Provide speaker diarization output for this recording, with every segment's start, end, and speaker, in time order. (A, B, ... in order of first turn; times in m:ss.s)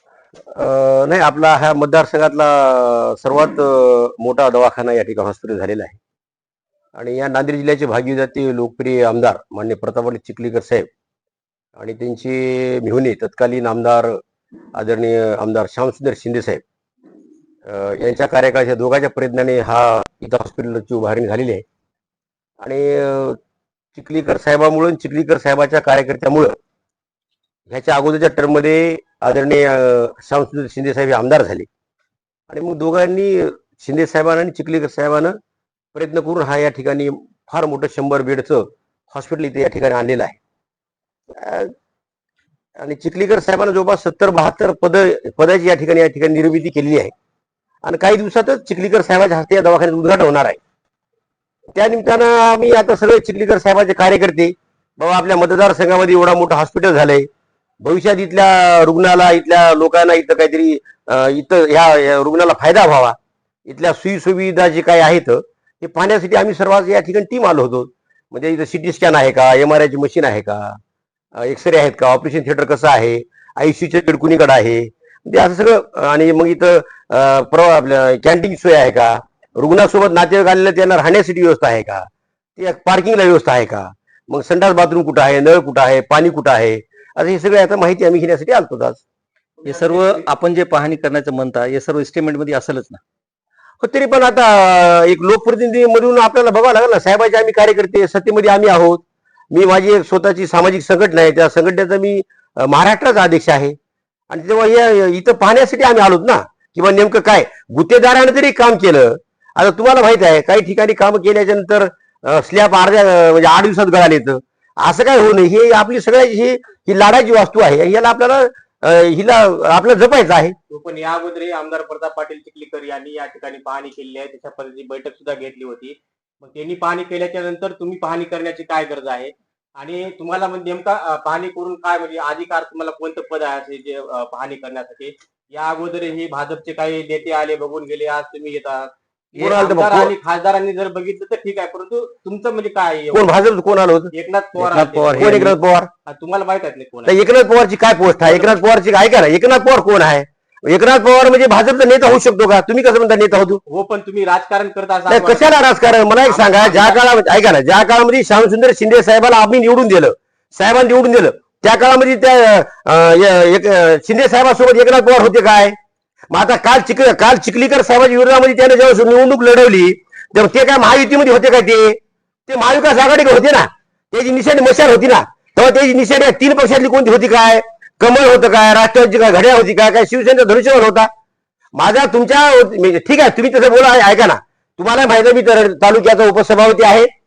0:00.6-0:06.0 A
0:07.0-0:10.9 A
0:11.8-0:14.2 A
0:14.8-0:16.6 A
0:17.7-0:21.6 A
0:22.6-0:23.4 A
0:24.0-0:26.6 A
0:27.7-0:31.7 A
0:32.5-0:35.4 A
0:35.9-0:40.4 A
0:41.4-0:41.7 A
0:42.8-0:47.1 A
0:47.8-0:50.6 A
0:51.8-0:57.3 A
0:57.8-1:10.8 A
1:11.4-1:29.0 A
1:29.6-1:30.3 B
1:29.6-1:33.0 C
1:33.8-1:43.8 A
1:44.3-2:00.6 A
2:00.7-2:23.3 B
2:19.4-2:20.1 A
2:23.1-2:24.1 A
2:24.1-2:25.5 B
2:24.6-2:25.6 C
2:25.2-2:25.9 A
2:26.1-2:27.2 B
2:27.1-2:33.6 A
2:28.2-2:28.6 B
2:33.7-2:35.6 B
2:35.1-2:45.8 A
2:36.2-2:37.0 B
2:46.3-3:01.1 A
3:01.8-3:07.1 A